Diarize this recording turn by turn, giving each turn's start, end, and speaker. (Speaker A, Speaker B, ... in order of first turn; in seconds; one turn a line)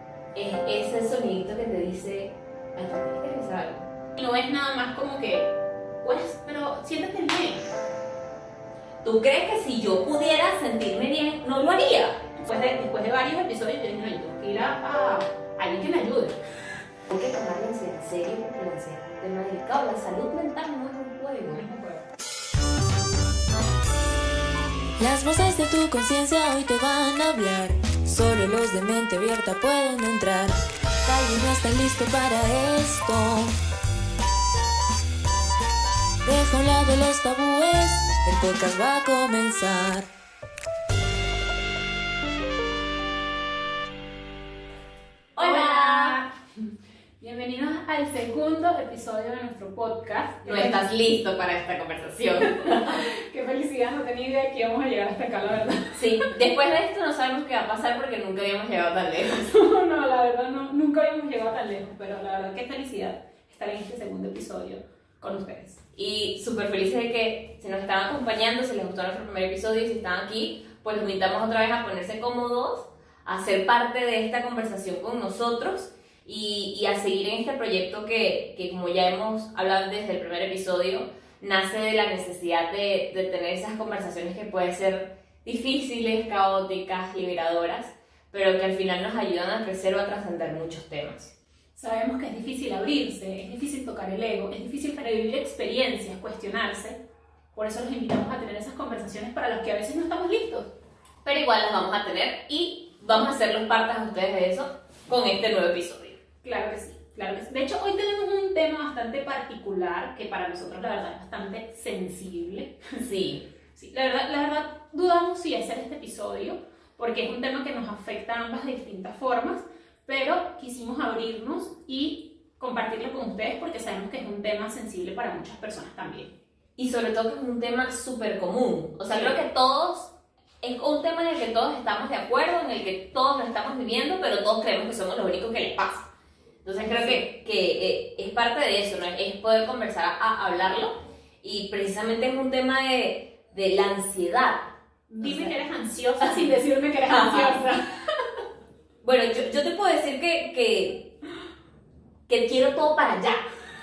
Speaker A: 0.3-3.9
Speaker B: 4.2-7.7
Speaker A: 9.0-12.3
Speaker B: 12.4-16.4
Speaker A: 17.1-21.6
Speaker B: 21.5-22.1
Speaker C: 25.0-33.5
Speaker C: 36.2-40.1
Speaker A: 45.4-46.2
Speaker B: 45.4-46.7
Speaker B: 47.2-50.8
Speaker A: 50.5-53.1
Speaker B: 52.5-56.3
Speaker A: 55.9-59.5
Speaker B: 59.3-65.8
Speaker A: 66.0-91.3
Speaker B: 91.8-97.0
Speaker B: 97.5-100.7
Speaker A: 101.2-106.2
Speaker B: 106.4-113.0
Speaker A: 113.0-113.5
Speaker B: 113.8-126.3
Speaker A: 126.8-130.1
Speaker B: 129.1-129.4
Speaker A: 130.6-136.1
Speaker A: 136.6-144.7
Speaker B: 136.8-137.2
Speaker B: 145.1-147.9
Speaker A: 145.2-145.5
Speaker A: 146.2-146.5
Speaker A: 147.1-147.6
Speaker A: 149.0-151.1
Speaker A: 152.3-153.4